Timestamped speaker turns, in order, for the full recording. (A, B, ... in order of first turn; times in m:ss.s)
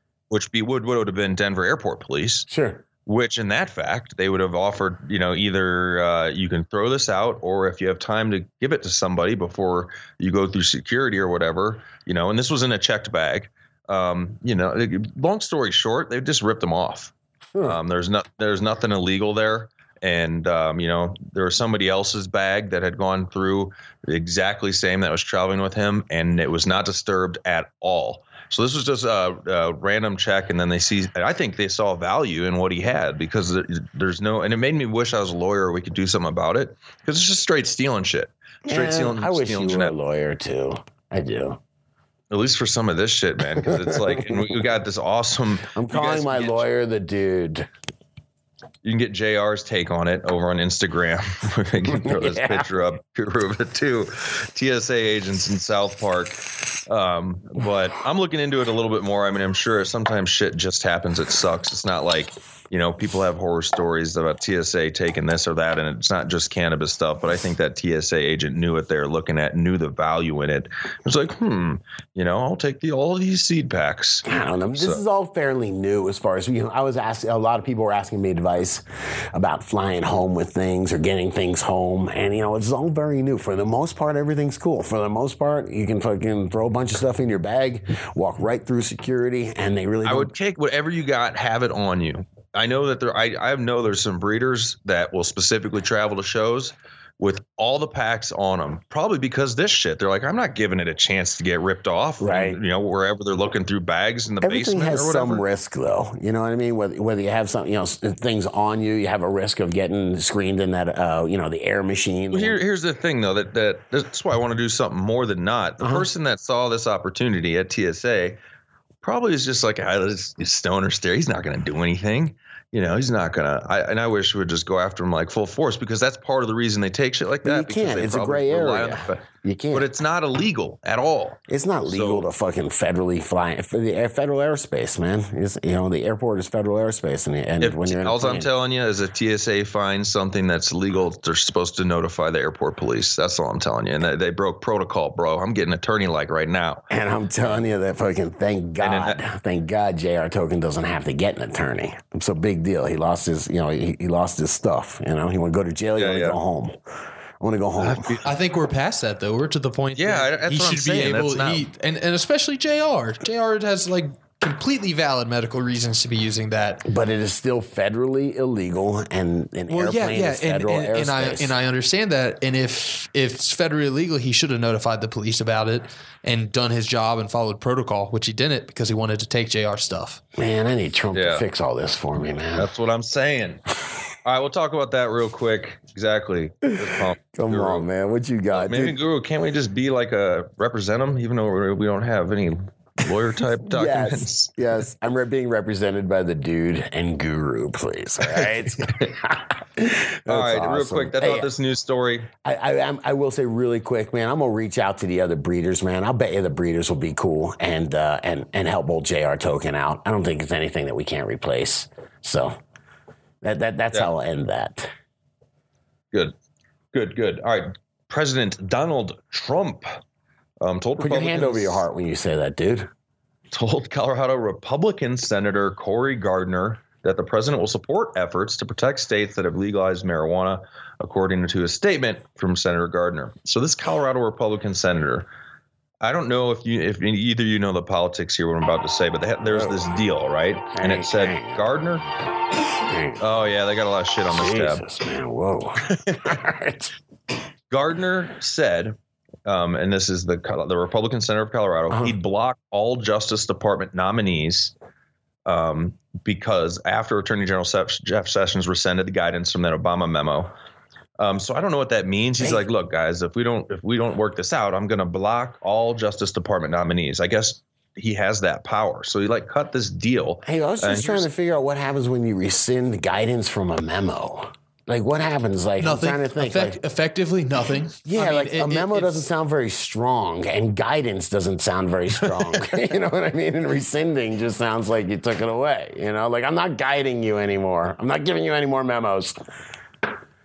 0:00.3-0:02.5 A
0:02.5-0:02.8 B
0:03.0-0:39.9 A
0:38.6-0:41.6 B
0:42.3-0:46.6 A
0:43.6-0:44.5 B
0:45.7-0:47.7 B
0:48.8-1:15.0 A
0:51.9-0:52.7 B
1:14.2-1:30.3 B
1:30.0-1:45.4 A
1:42.2-1:42.6 B
1:44.4-1:52.6 B
1:52.3-1:58.4 A
1:55.8-1:56.1 B
1:59.0-2:12.2 A
2:07.4-2:09.9 B
2:11.5-2:18.5 B
2:17.6-2:26.8 A
2:26.9-2:36.8 B
2:28.8-2:29.2 A
2:36.0-2:36.4 A
2:37.4-2:38.2 B
2:37.8-2:38.2 A
2:38.2-2:46.8 C
2:40.0-2:41.6 A
2:46.8-2:51.5 B
2:49.7-3:00.2 C
3:00.4-3:02.7 B
3:01.1-3:01.4 A
3:02.6-3:03.6 A
3:04.2-3:07.8 A
3:06.8-3:09.0 B
3:08.5-3:14.5 A
3:13.7-3:21.5 B
3:18.2-3:19.1 A
3:20.3-3:22.3 A
3:22.4-3:32.6 B
3:33.4-3:34.9 B
3:36.9-3:40.0 A
3:40.6-3:41.8 A
3:41.0-3:42.9 B
3:43.5-3:55.3 A
3:56.0-4:02.0 A
3:59.4-3:59.9 B
4:00.7-4:01.8 B
4:02.8-4:03.2 B
4:03.2-4:04.8 A
4:04.3-4:06.9 B
4:05.8-4:06.4 A
4:07.7-4:14.7 A
4:11.9-4:12.1 B
4:15.4-4:20.5 A
4:21.2-4:31.3 A
4:30.4-4:36.8 B
4:35.8-4:39.2 C
4:38.0-4:49.4 B